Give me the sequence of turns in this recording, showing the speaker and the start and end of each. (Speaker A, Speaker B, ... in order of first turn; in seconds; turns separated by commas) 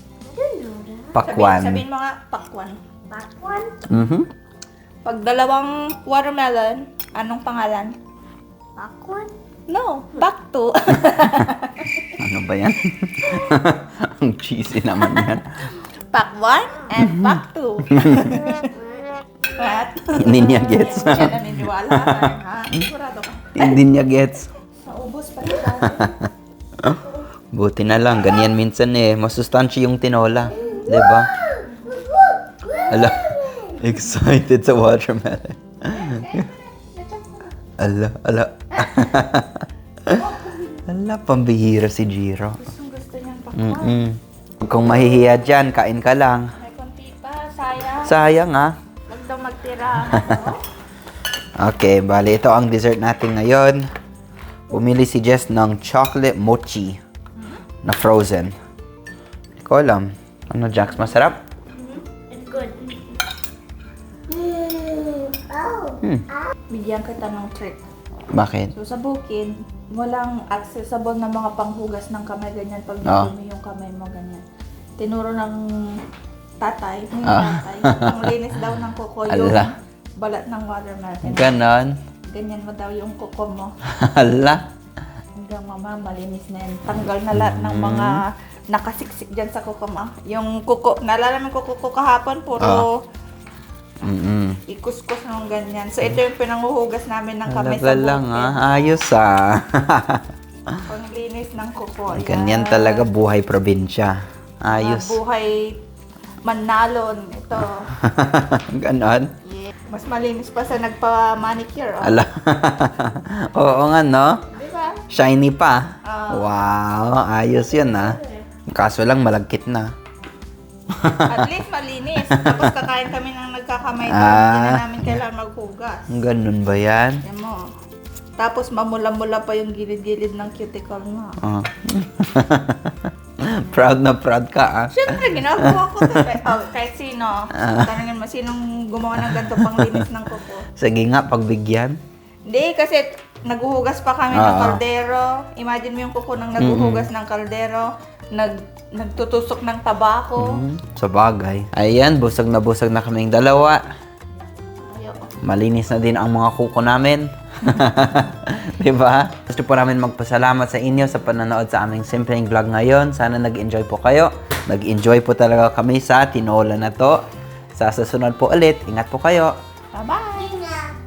Speaker A: 0.2-1.1, Speaker B: 1.1-1.8, Speaker C: 1.2-2.8, Speaker A: 3.1-3.8, Speaker B: 3.8-4.3, Speaker C: 5.0-8.0, Speaker A: 8.8-9.3, Speaker C: 9.7-12.2, Speaker B: 12.1-15.7, Speaker C: 15.1-18.8, Speaker B: 17.0-17.3, Speaker B: 17.9-18.5, Speaker A: 19.0-19.5, Speaker C: 19.5-23.8, Speaker B: 20.1-22.3, Speaker B: 23.5-24.5, Speaker C: 24.8-26.2, Speaker B: 25.6-31.5, Speaker C: 30.5-32.1, Speaker A: 31.1-33.2, Speaker C: 32.7-33.7, Speaker B: 32.8-36.5, Speaker C: 35.9-37.5, Speaker B: 37.8-40.3, Speaker C: 38.7-39.2, Speaker C: 40.2-40.8, Speaker B: 40.8-42.6, Speaker C: 42.6-44.1, Speaker B: 43.5-46.5, Speaker C: 46.6-48.2, Speaker B: 48.0-48.8, Speaker C: 49.1-50.6, Speaker B: 50.1-50.5, Speaker B: 51.6-53.9, Speaker B: 54.7-57.0, Speaker C: 57.4-57.6, Speaker B: 57.8-58.5, Speaker B: 59.6-61.4, Speaker A: 61.8-63.2, Speaker A: 64.3-66.0, Speaker B: 66.0-66.2, Speaker C: 66.7-67.8, Speaker B: 68.3-68.7, Speaker C: 68.7-74.4, Speaker B: 73.0-73.3, Speaker C: 75.0-76.0, Speaker C: 76.6-81.6, Speaker B: 77.2-78.3, Speaker B: 79.3-79.7, Speaker B: 81.2-82.0, Speaker C: 82.3-83.7, Speaker B: 83.9-84.6, Speaker C: 85.3-93.1, Speaker B: 87.3-88.2, Speaker B: 92.6-92.9, Speaker B: 94.0-94.6, Speaker C: 94.7-98.8, Speaker B: 97.5-100.8, Speaker C: 100.8-103.1, Speaker B: 102.1-105.2, Speaker C: 104.7-105.8, Speaker C: 106.5-107.9, Speaker B: 107.9-109.3, Speaker C: 109.4-112.2, Speaker B: 112.0-114.4, Speaker C: 114.5-115.0, Speaker B: 115.1-119.9, Speaker C: 116.0-116.6, Speaker B: 120.9-121.5, Speaker C: 121.2-126.2, Speaker B: 122.2-122.8, Speaker B: 124.1-125.1, Speaker B: 126.1-127.2, Speaker C: 127.2-127.7, Speaker C: 128.4-131.4, Speaker B: 131.4-136.4, Speaker C: 134.9-140.7, Speaker B: 137.5-137.9, Speaker B: 139.2-140.1, Speaker B: 140.7-142.0, Speaker C: 142.5-150.7, Speaker B: 144.3-144.8, Speaker B: 146.6-147.1, Speaker B: 150.4-153.8, Speaker C: 154.8-155.3, Speaker B: 155.4-169.6, Speaker C: 169.9-170.6, Speaker A: 170.5-170.9